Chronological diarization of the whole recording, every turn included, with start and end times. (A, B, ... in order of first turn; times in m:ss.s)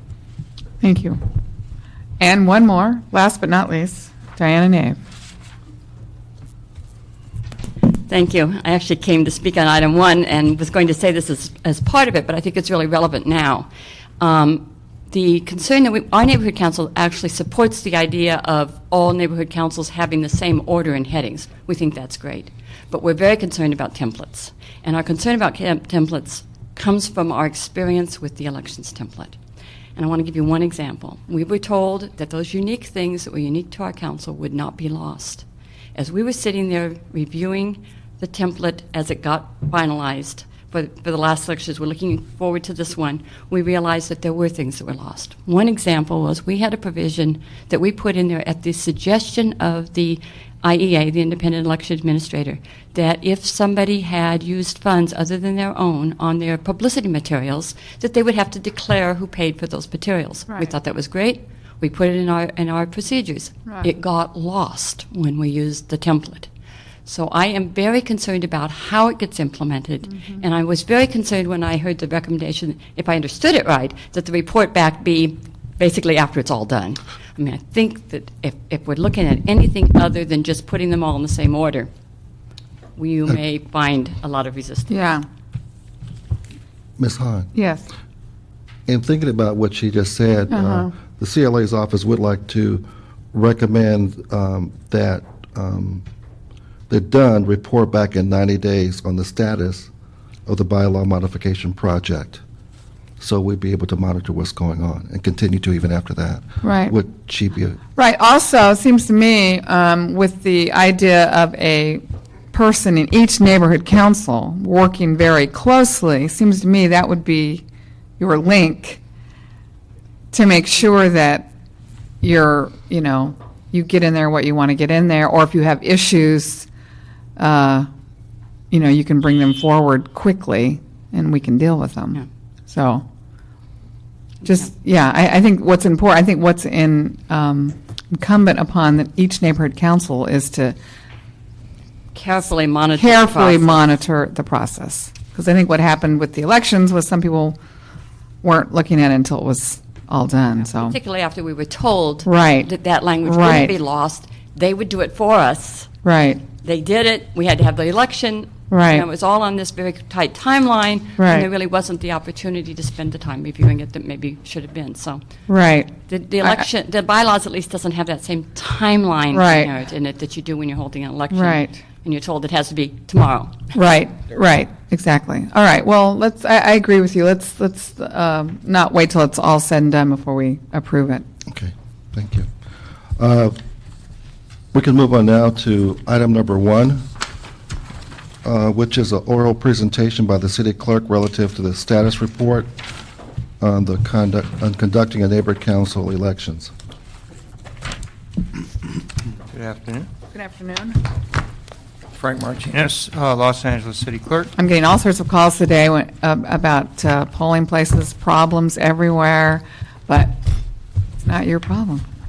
0:00.8-0:01.2 A
0:02.2-0:05.0 A
0:07.9-0:13.7 B
0:14.2-0:29.4 B
0:30.0-1:06.5 B
1:07.1-1:21.9 B
1:23.0-1:25.0 B
1:24.9-1:25.3 A
1:27.0-1:27.5 C
1:27.5-1:27.9 A
1:28.9-1:36.0 C
1:30.5-1:30.9 A
1:36.9-1:39.9 C
1:40.5-1:42.4 C
1:43.2-1:47.8 C
1:46.6-1:46.9 A
1:48.0-1:57.6 A
1:58.2-1:59.0 A
2:00.3-2:01.5 A
2:02.2-2:06.7 A
2:07.4-2:07.9 A
2:08.7-2:13.0 A
2:14.4-2:20.8 A
2:22.1-2:23.9 B
2:23.0-2:27.6 A
2:28.4-2:31.0 A
2:30.6-2:35.9 B
2:32.3-2:32.7 A
2:33.2-2:33.7 A
2:36.0-2:36.4 A
2:36.6-2:45.2 B
2:38.7-2:39.1 A
2:41.2-2:41.5 A
2:45.5-2:46.6 A
2:46.1-2:53.6 B
2:49.3-2:49.7 A
2:51.3-2:51.8 A
2:53.7-3:01.2 A
3:01.5-3:02.5 C
3:03.2-3:03.6 C
3:04.7-3:07.1 C
3:08.4-3:12.7 C
3:13.6-3:16.7 C
3:19.5-3:20.1 D
3:20.3-3:21.0 A
3:22.2-3:24.5 D
3:24.6-3:30.4 A
3:31.2-3:32.0 A